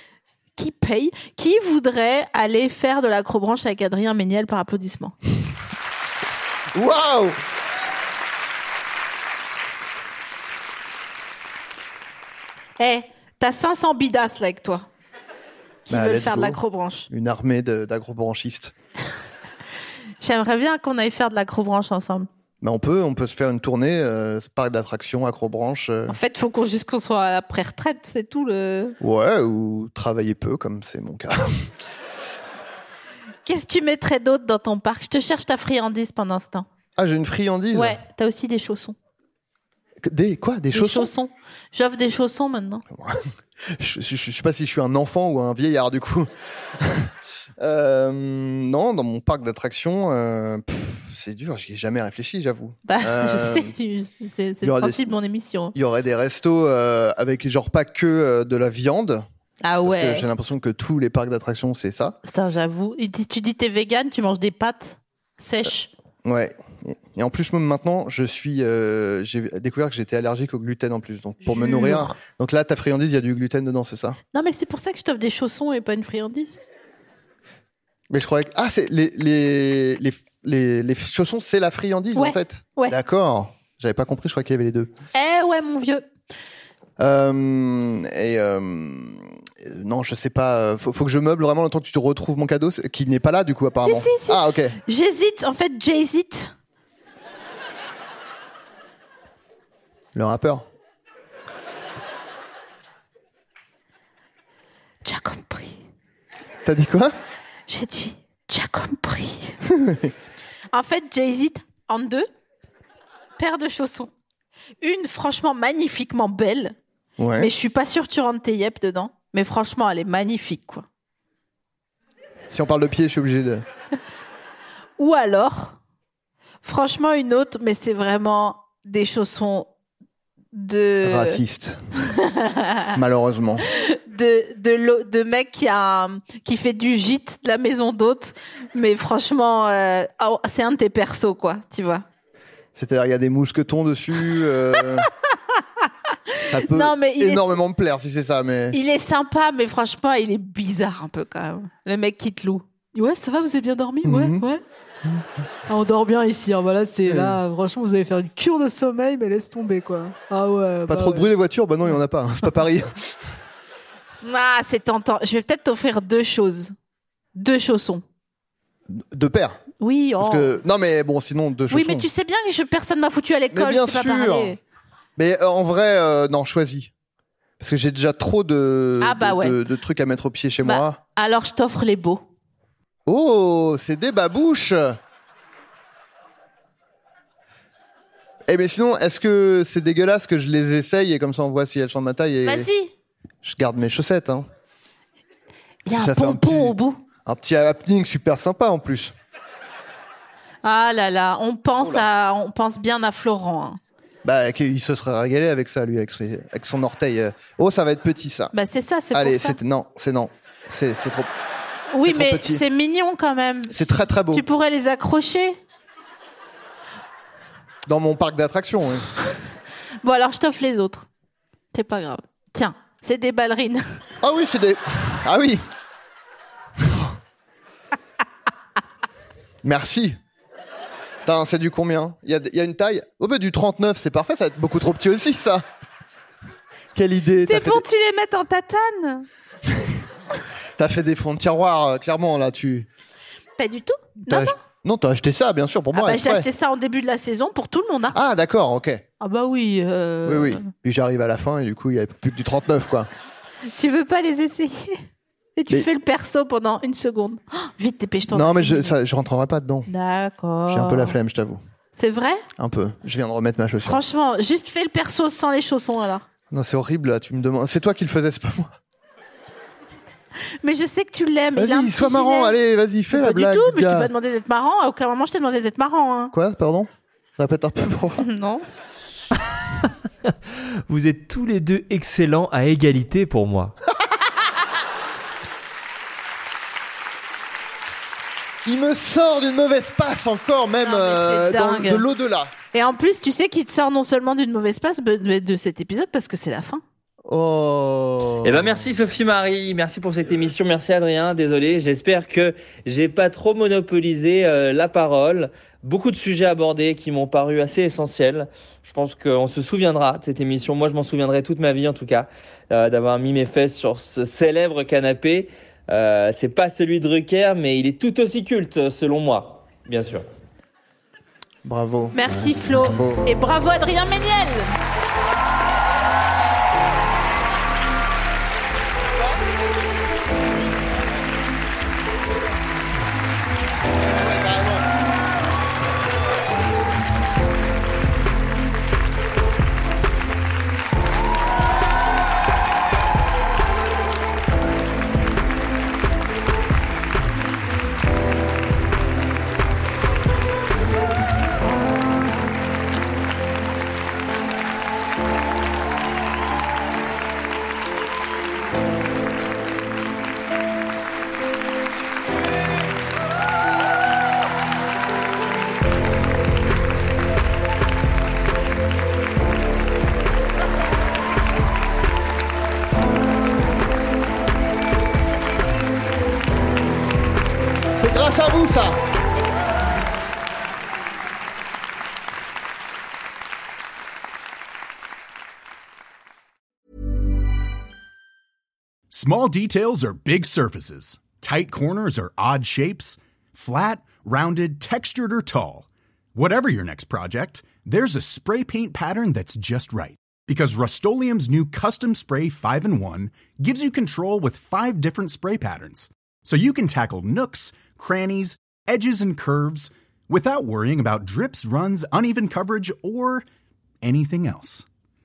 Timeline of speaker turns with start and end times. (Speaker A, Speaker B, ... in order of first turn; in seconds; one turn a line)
Speaker A: 0.6-5.1
Speaker B: 6.7-7.4
Speaker A: 12.8-14.8
Speaker A: 15.8-17.1
Speaker B: 15.9-18.7
Speaker A: 20.2-22.3
Speaker B: 22.6-26.2
Speaker A: 26.1-29.0
Speaker B: 29.0-31.7
Speaker A: 33.4-36.7
Speaker B: 37.0-38.0
Speaker A: 37.7-38.9
Speaker B: 40.0-41.1
Speaker A: 40.7-42.8
Speaker B: 42.9-53.7
Speaker A: 52.9-55.7
Speaker B: 54.6-55.1
Speaker B: 55.7-59.2
Speaker A: 59.6-60.3
Speaker B: 59.8-62.2
Speaker A: 62.2-65.9
Speaker B: 66.2-74.2
Speaker A: 71.4-72.2
Speaker A: 74.3-76.6
Speaker B: 78.1-84.9
Speaker A: 82.1-83.0
Speaker A: 85.1-86.0
Speaker B: 87.0-94.8
Speaker A: 93.8-96.5
Speaker B: 100.1-100.7
Speaker A: 105.0-105.8
Speaker B: 106.6-107.1
Speaker A: 107.7-109.6
Speaker B: 109.6-110.1
Speaker A: 110.7-112.3
Speaker A: 113.4-114.1
Speaker A: 114.8-116.8
Speaker B: 117.2-117.5
Speaker A: 117.4-120.8
Speaker B: 122.5-123.6
Speaker A: 125.0-125.8
Speaker A: 126.6-129.7
Speaker A: 130.5-131.4
Speaker B: 131.0-131.8
Speaker A: 132.0-132.9
Speaker B: 132.9-133.6
Speaker A: 133.7-142.0
Speaker B: 142.7-145.1
Speaker A: 146.3-147.6
Speaker B: 146.5-148.8
Speaker A: 148.7-154.6
Speaker B: 154.0-154.4
Speaker A: 155.7-161.3
Speaker B: 157.1-157.4
Speaker B: 160.9-163.2
Speaker A: 164.2-166.7
Speaker A: 167.3-168.0
Speaker B: 168.9-169.6
Speaker A: 169.8-170.5
Speaker B: 170.2-172.1
Speaker A: 171.7-174.6
Speaker B: 173.5-174.6
Speaker B: 175.2-176.9
Speaker B: 177.6-181.0
Speaker A: 179.0-179.6
Speaker A: 180.6-182.2
Speaker B: 183.1-185.0
Speaker B: 188.5-192.7
Speaker A: 192.4-192.9
Speaker B: 193.4-194.5
Speaker A: 195.8-197.0
Speaker B: 195.9-199.1
Speaker A: 200.6-203.8
Speaker B: 204.2-208.5
Speaker A: 208.5-209.6
Speaker B: 209.1-211.3
Speaker A: 211.9-215.6
Speaker B: 212.0-212.6
Speaker B: 213.7-214.4
Speaker B: 217.9-219.1
Speaker A: 220.0-221.1
Speaker A: 221.7-223.8
Speaker B: 224.2-225.6
Speaker B: 226.8-227.1
Speaker B: 229.6-230.2
Speaker B: 231.2-235.6
Speaker B: 236.9-237.8
Speaker A: 237.4-239.2
Speaker B: 239.7-240.0
Speaker B: 240.8-242.9
Speaker A: 243.6-244.6
Speaker B: 244.3-246.5
Speaker A: 245.9-248.2
Speaker B: 248.1-249.0
Speaker A: 249.2-250.7
Speaker B: 250.2-253.1
Speaker A: 253.7-255.0
Speaker A: 255.6-258.9
Speaker B: 258.3-259.9
Speaker A: 259.9-261.2
Speaker B: 260.7-261.6
Speaker A: 261.9-262.4
Speaker B: 262.6-264.0
Speaker A: 263.8-266.2
Speaker B: 266.5-268.8
Speaker A: 270.6-272.5
Speaker B: 271.5-274.1
Speaker A: 273.1-276.3
Speaker B: 276.3-278.2
Speaker A: 278.2-278.6
Speaker C: 279.8-280.3
Speaker C: 280.9-283.7
Speaker B: 288.6-292.5
Speaker A: 290.8-292.0
Speaker A: 292.7-296.8
Speaker B: 297.2-298.7
Speaker D: 298.4-320.2
Speaker B: 321.6-323.2
Speaker A: 322.1-324.7
Speaker B: 334.0-334.9
Speaker B: 377.9-379.0
Speaker E: 389.1-413.4
Speaker E: 414.0-414.8